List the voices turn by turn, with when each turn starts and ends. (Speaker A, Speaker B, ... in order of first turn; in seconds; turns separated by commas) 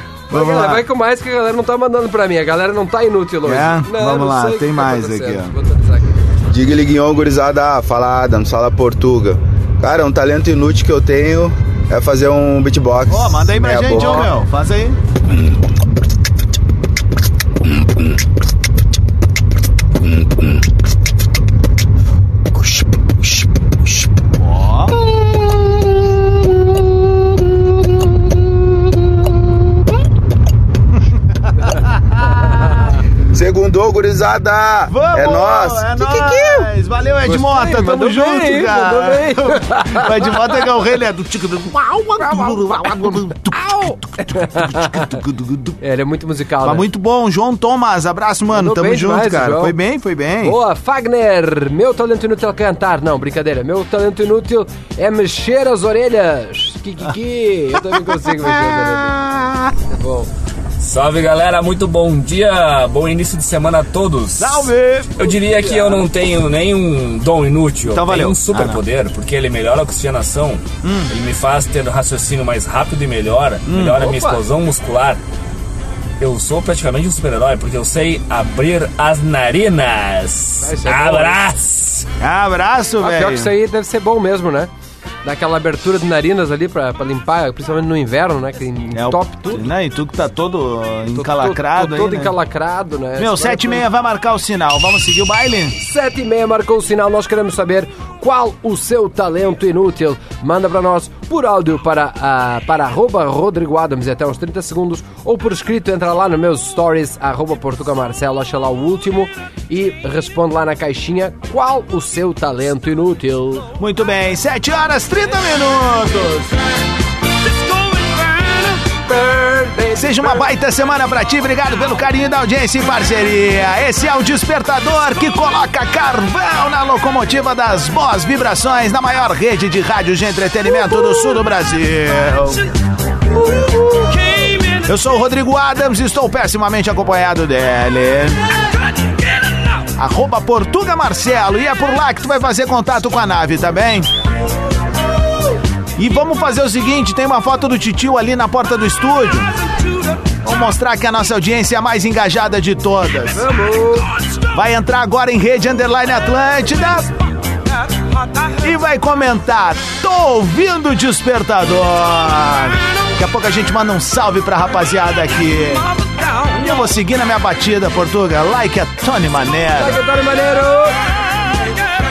Speaker A: 0.3-0.8, Speaker B: 0.3-6.3, Speaker A: 3.4-5.5, Speaker C: 6.5-14.3, Speaker A: 13.1-15.0, Speaker A: 24.4-24.9, Speaker B: 32.5-32.9, Speaker C: 33.3-35.9, Speaker A: 34.9-45.8, Speaker B: 36.0-36.7, Speaker B: 37.2-40.5, Speaker B: 42.2-45.1, Speaker B: 45.8-46.9, Speaker A: 46.6-50.6, Speaker B: 48.5-49.8, Speaker B: 50.4-59.1, Speaker A: 58.0-59.7, Speaker B: 59.9-60.3, Speaker D: 60.8-75.2, Speaker A: 64.4-65.3, Speaker B: 65.5-66.0, Speaker A: 67.9-68.8, Speaker A: 70.8-71.1, Speaker A: 73.7-74.1, Speaker B: 74.0-74.4, Speaker D: 76.2-82.0, Speaker B: 80.6-81.4, Speaker A: 82.2-83.5, Speaker B: 83.0-84.7, Speaker B: 85.2-89.7, Speaker A: 88.9-92.3, Speaker B: 91.1-93.8, Speaker A: 93.2-95.8, Speaker B: 95.8-113.7, Speaker A: 113.8-116.6, Speaker B: 117.8-120.5, Speaker A: 119.9-132.7, Speaker A: 134.6-138.4, Speaker A: 139.9-144.1, Speaker A: 146.0-149.5, Speaker A: 150.4-153.4, Speaker B: 153.3-154.1, Speaker A: 154.5-157.1, Speaker A: 158.6-165.9, Speaker A: 166.5-170.0, Speaker B: 169.8-171.0